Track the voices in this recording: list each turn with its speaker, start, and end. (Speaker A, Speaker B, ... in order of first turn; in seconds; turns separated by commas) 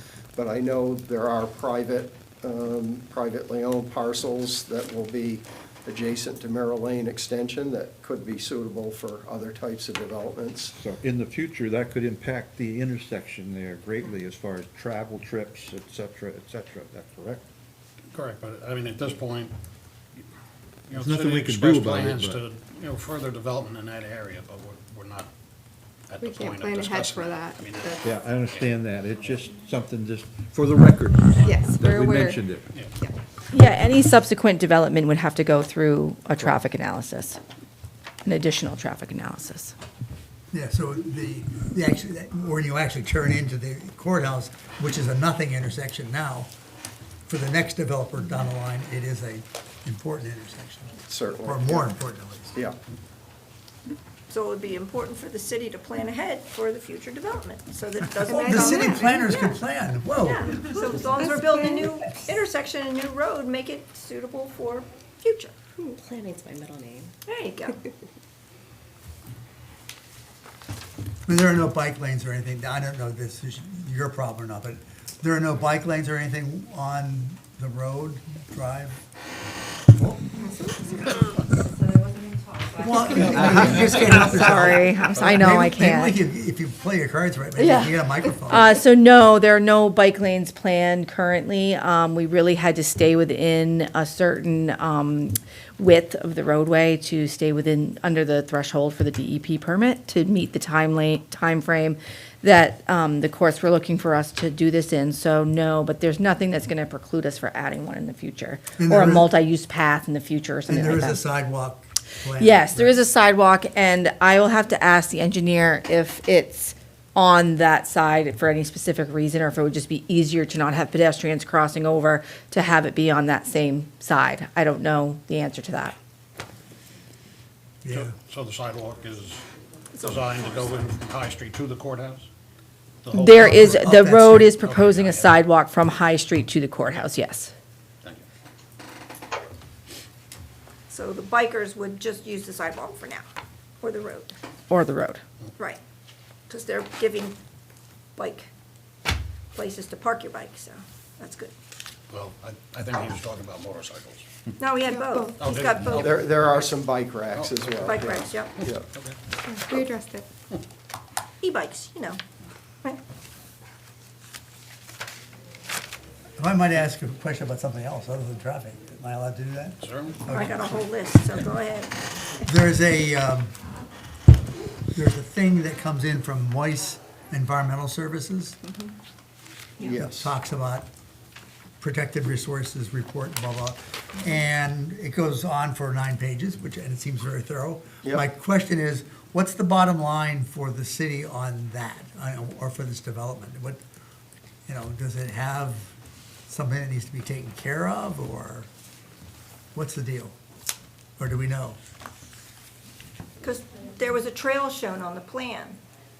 Speaker A: 0.3-10.7, Speaker B: 10.7-17.4, Speaker C: 18.1-19.5, Speaker C: 20.9-25.3, Speaker B: 20.9-22.4, Speaker C: 26.1-28.7, Speaker D: 26.2-28.1, Speaker B: 28.0-32.7, Speaker D: 31.4-32.4, Speaker C: 32.7-33.0, Speaker E: 33.5-37.4, Speaker E: 38.2-39.7, Speaker F: 40.5-46.5, Speaker F: 47.3-52.5, Speaker A: 51.0-51.9, Speaker G: 54.3-59.6, Speaker F: 58.2-60.5, Speaker D: 58.4-58.9, Speaker G: 60.2-65.5, Speaker E: 65.8-67.1, Speaker G: 67.3-67.8, Speaker F: 71.2-79.0, Speaker F: 79.9-80.3, Speaker G: 81.6-84.2, Speaker F: 82.8-88.8, Speaker E: 83.4-86.2, Speaker E: 87.6-111.2, Speaker F: 108.8-109.3, Speaker F: 110.7-113.0, Speaker E: 112.4-126.0, Speaker F: 127.8-128.1, Speaker C: 127.9-129.4, Speaker C: 129.9-132.3, Speaker G: 130.0-130.7, Speaker C: 133.0-133.7, Speaker E: 133.1-137.5, Speaker F: 133.3-134.6, Speaker C: 134.6-135.4, Speaker G: 140.9-143.2, Speaker G: 143.8-144.3, Speaker E: 144.7-145.2, Speaker G: 146.5-147.4, Speaker G: 148.2-148.5, Speaker G: 149.5-151.5, Speaker C: 152.1-154.3, Speaker G: 154.6-156.2, Speaker C: 155.4-156.7, Speaker A: 155.9-158.9, Speaker C: 157.3-158.0, Speaker G: 157.8-158.6, Speaker C: 158.9-159.2, Speaker D: 159.5-160.2, Speaker G: 161.4-162.2, Speaker F: 166.4-170.7, Speaker C: 169.8-170.3, Speaker G: 170.3-171.9, Speaker F: 172.4-173.5, Speaker F: 174.9-178.6, Speaker A: 179.8-180.3, Speaker F: 179.8-180.9, Speaker F: 181.8-193.8, Speaker F: 194.7-195.9, Speaker F: 196.5-198.7, Speaker F: 199.7-200.3, Speaker F: 201.2-201.8, Speaker G: 203.4-205.8